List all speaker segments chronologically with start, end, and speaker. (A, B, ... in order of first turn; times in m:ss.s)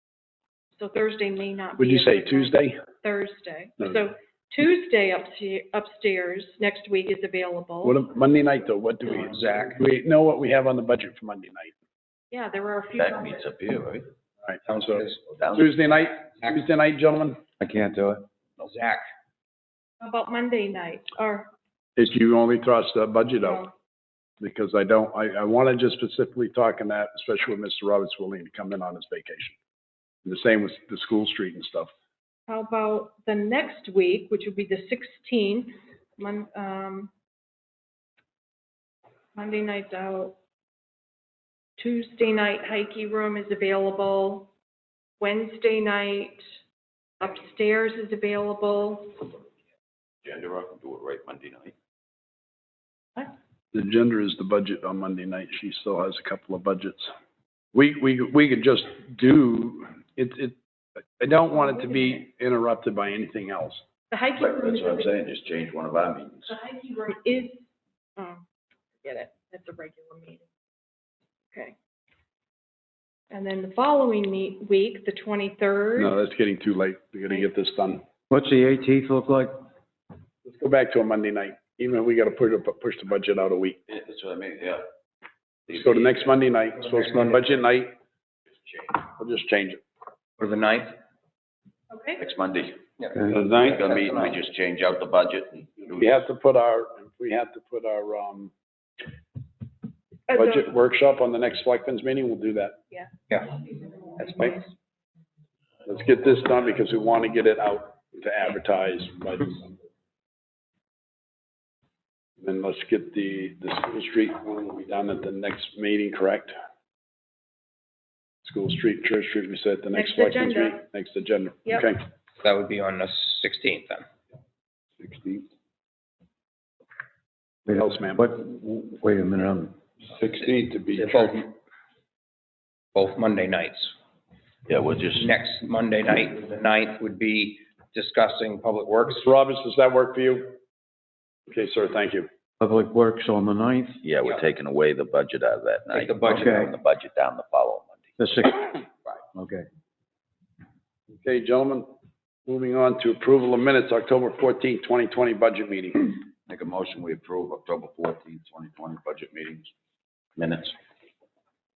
0:00.7-0:08.0 A
0:01.8-0:02.8 B
0:07.8-0:11.7 B
0:12.3-0:13.5 A
0:13.0-0:14.1 C
0:14.4-0:17.4 B
0:14.7-0:15.2 D
0:15.3-0:15.7 C
0:17.6-0:18.2 E
0:18.6-0:19.0 D
0:20.0-0:21.5 A
0:22.0-0:23.7 B
0:23.4-0:23.7 A
0:24.4-0:29.6 B
0:30.2-0:31.9 B
0:32.5-0:37.1 A
0:39.4-0:40.4 A
0:41.8-0:44.5 A
0:45.2-0:46.4 A
0:47.2-0:49.3 A
0:50.2-0:51.7 C
0:53.7-0:57.1 B
0:57.7-1:00.6 B
1:01.2-1:03.8 B
1:04.1-1:05.1 A
1:04.4-1:06.5 C
1:06.5-1:08.4 A
1:09.0-1:10.4 A
1:13.3-1:16.1 A
1:16.0-1:18.0 B
1:18.3-1:19.5 E
1:20.4-1:23.8 B
1:23.9-1:24.8 C
1:25.7-1:26.4 C
1:25.7-1:27.9 B
1:26.8-1:27.5 D
1:28.5-1:29.0 C
1:29.1-1:29.8 B
1:30.4-1:30.9 D
1:31.9-1:32.2 A
1:32.2-1:32.9 C
1:33.0-1:34.4 D
1:33.3-1:33.8 B
1:33.5-1:36.1 C
1:35.9-1:38.5 B
1:40.3-1:40.6 A
1:40.3-1:42.8 B
1:43.3-1:43.6 D
1:44.2-1:44.5 D
1:44.4-1:44.6 B
1:45.8-1:49.8 B
1:52.4-1:56.5 B
1:58.4-2:02.0 B
1:59.9-2:00.8 A
2:02.4-2:04.0 D
2:05.0-2:05.4 B
2:07.7-2:09.8 E
2:07.7-2:08.2 B
2:10.1-2:11.4 B
2:10.4-2:11.5 D
2:12.9-2:13.9 D
2:14.7-2:15.3 C
2:15.1-2:19.2 D
2:19.1-2:20.6 B
2:21.5-2:22.3 B
2:22.6-2:24.0 E
2:24.0-2:28.2 C
2:25.9-2:26.6 D
2:26.2-2:26.7 E
2:28.2-2:29.6 E
2:31.2-2:31.9 B
2:32.4-2:36.2 B
2:36.5-2:39.7 C
2:40.4-2:40.8 C